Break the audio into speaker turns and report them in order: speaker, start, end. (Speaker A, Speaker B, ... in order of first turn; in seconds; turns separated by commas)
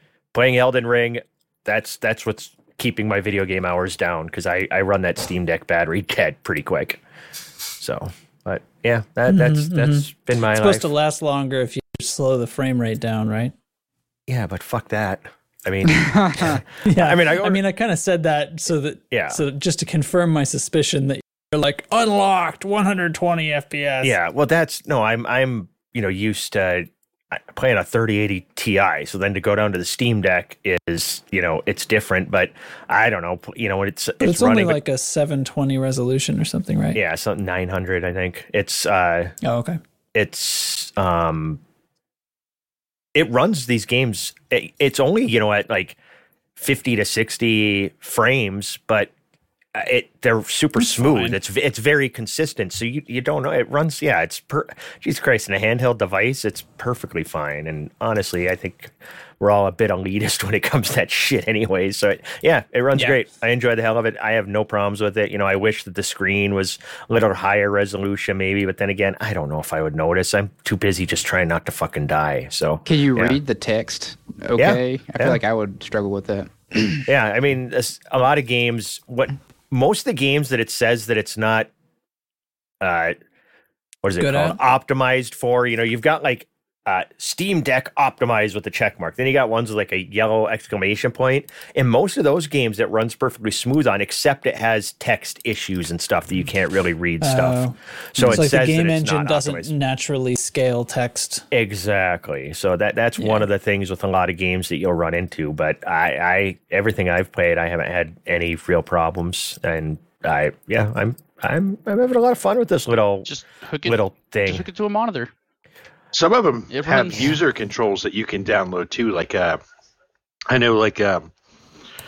Speaker A: 0.3-7.0, Speaker A: 7.8-10.9, Speaker B: 9.3-13.5, Speaker A: 14.3-17.6, Speaker C: 16.1-16.5, Speaker B: 16.9-24.1, Speaker A: 19.1-19.4, Speaker A: 24.0-34.8, Speaker B: 34.2-37.0, Speaker A: 36.9-39.3, Speaker B: 39.4-39.8, Speaker A: 40.1-41.6, Speaker A: 43.1-46.0, Speaker A: 46.6-49.1, Speaker A: 49.8-73.4, Speaker B: 50.8-51.4, Speaker C: 72.9-77.0, Speaker A: 74.6-75.4, Speaker A: 77.1-81.7, Speaker A: 82.8-83.2, Speaker A: 84.0-99.7, Speaker B: 84.2-84.6, Speaker B: 97.2-101.5, Speaker A: 101.5-113.3, Speaker B: 103.2-103.5, Speaker D: 113.3-115.3, Speaker A: 113.8-114.6, Speaker E: 116.1-119.6, Speaker D: 116.7-117.4, Speaker E: 120.5-121.3